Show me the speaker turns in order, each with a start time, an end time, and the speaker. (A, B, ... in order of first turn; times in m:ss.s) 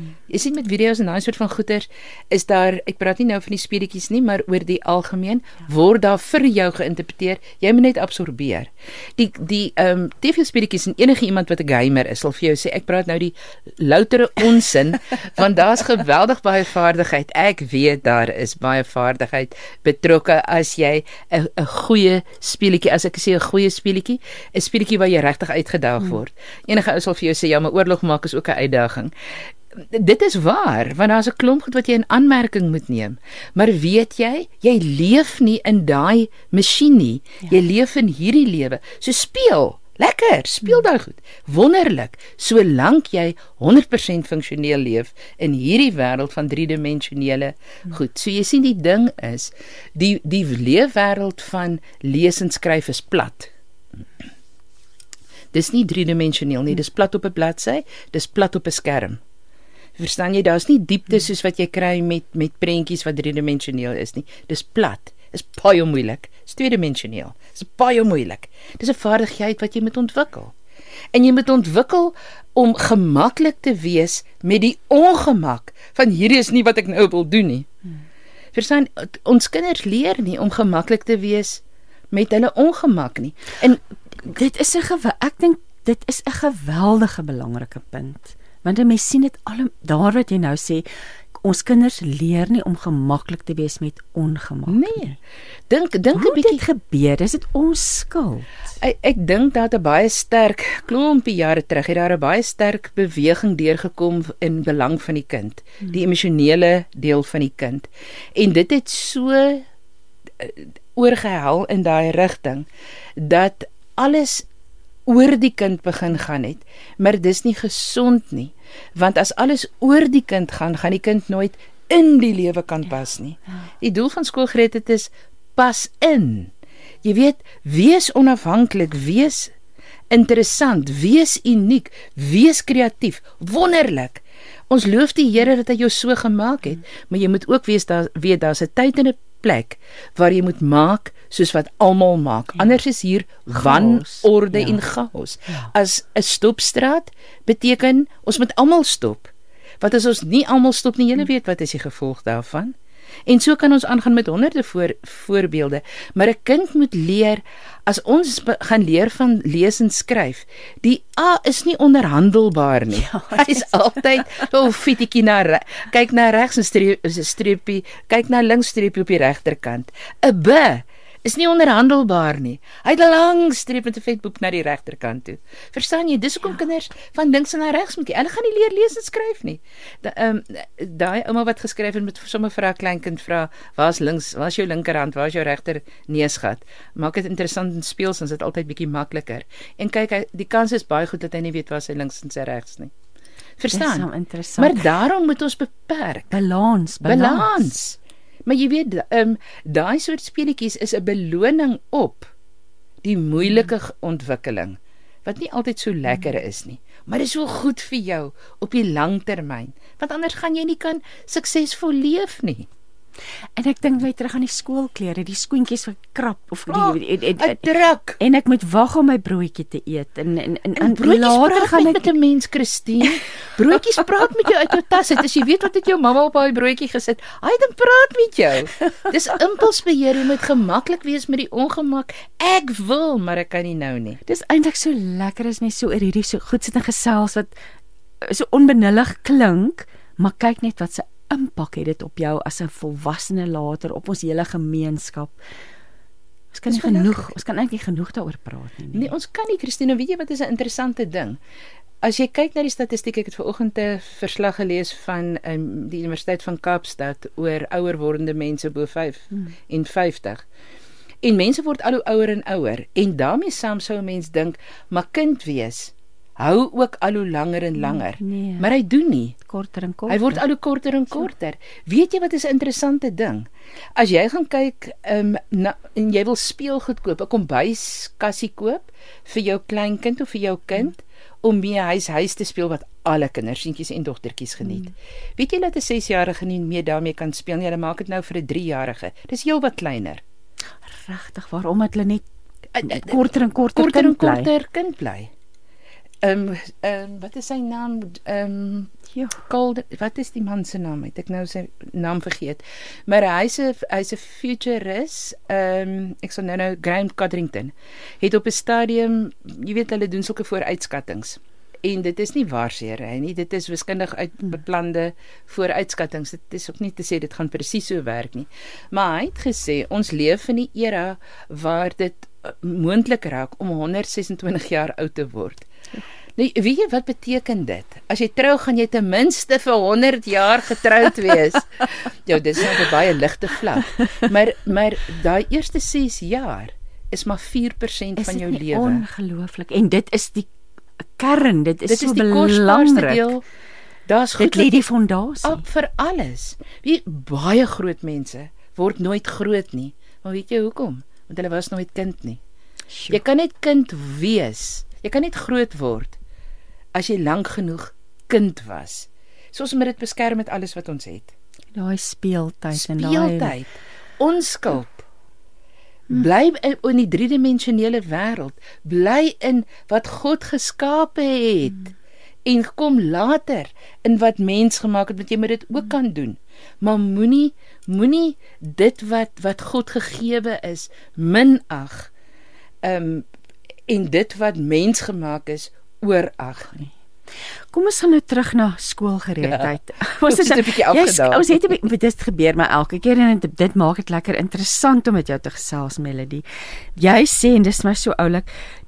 0:00.3-0:29.1 A
0:29.8-0:53.5 A
0:55.5-0:59.2 A
1:00.0-1:10.5 A
1:11.1-1:17.7 A
1:18.5-1:21.6 A
1:22.1-1:23.8 A
1:24.2-1:30.9 B
1:31.4-1:35.2 B
1:34.7-1:35.1 A
1:35.7-1:36.6 A
1:36.1-1:38.5 B
1:38.8-1:49.6 A
1:50.4-1:52.6 A
1:53.2-1:54.4 A
1:55.1-2:06.5 A
2:07.0-2:09.5 A
2:10.1-2:32.7 A
2:23.5-2:24.8 B
2:33.3-3:12.9 A
2:42.9-2:43.7 B
3:13.6-3:14.1 A
3:13.7-3:14.8 B
3:14.6-3:16.4 A
3:16.3-3:17.7 B
3:17.0-3:22.3 A
3:23.0-3:32.7 A
3:33.6-3:37.7 B
3:36.7-3:38.2 A
3:38.2-3:42.1 B
3:40.8-3:54.2 A
3:54.2-3:57.6 B
3:58.2-4:05.4 B
4:06.5-4:09.1 B
4:06.7-4:07.3 A
4:08.9-4:11.4 A
4:12.0-4:20.4 A
4:21.2-4:29.4 A
4:28.2-4:28.7 B
4:29.4-4:30.4 B
4:30.1-4:50.2 A
4:50.8-4:52.2 B
4:52.8-4:55.3 A
4:52.8-4:54.5 B
4:56.2-4:58.9 A
4:59.5-5:25.7 A
5:26.4-5:39.0 A
5:38.2-5:43.3 B
5:41.9-5:43.4 A
5:44.1-5:44.8 A
5:44.4-5:45.6 B
5:45.4-5:52.4 A
5:52.9-5:53.2 B
5:53.1-5:56.2 A
5:56.9-6:01.3 A
6:01.7-6:03.6 B
6:02.8-6:05.0 A
6:06.1-6:11.9 A
6:12.4-6:22.1 A
6:22.8-6:23.2 A
6:23.9-6:26.9 A
6:27.7-6:36.4 B
6:29.4-6:29.7 A
6:30.3-6:31.7 A
6:37.0-6:38.5 B